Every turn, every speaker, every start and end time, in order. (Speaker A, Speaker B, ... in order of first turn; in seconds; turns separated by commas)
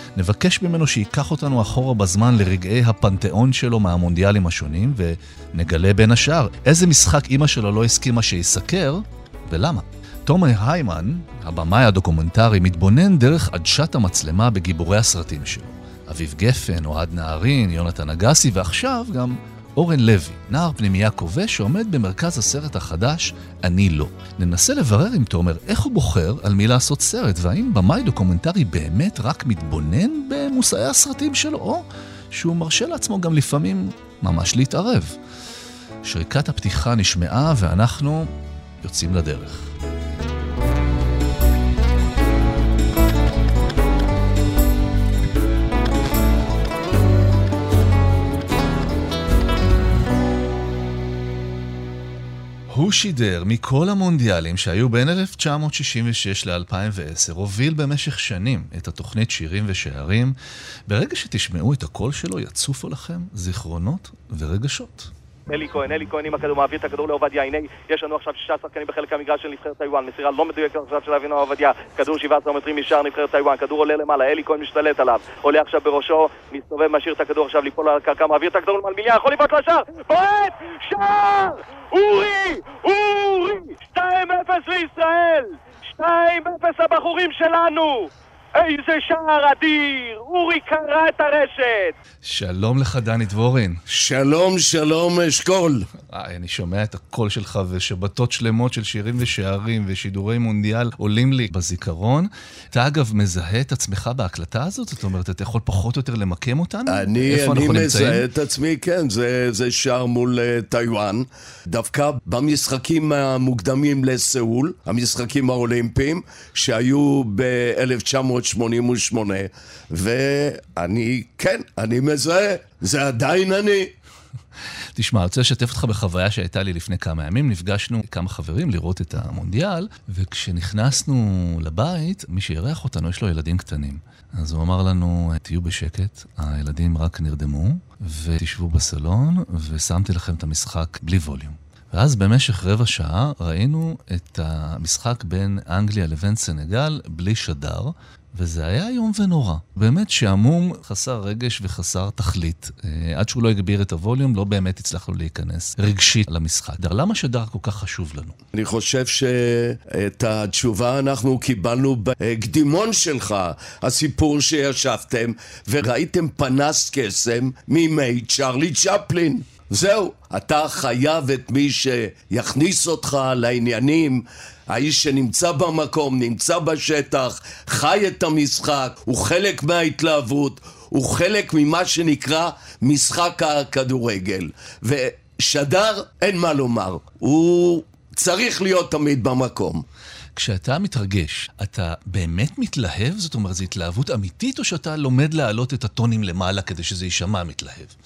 Speaker A: 0.2-35.2, Speaker A: 36.0-39.7, Speaker A: 52.7-60.4, Speaker A: 60.9-65.1, Speaker B: 65.5-92.0, Speaker A: 92.2-93.8, Speaker C: 93.9-95.9, Speaker A: 96.1-108.3, Speaker C: 106.9-123.9, Speaker A: 125.0-158.4, Speaker C: 158.5-189.8, Speaker A: 190.3-197.9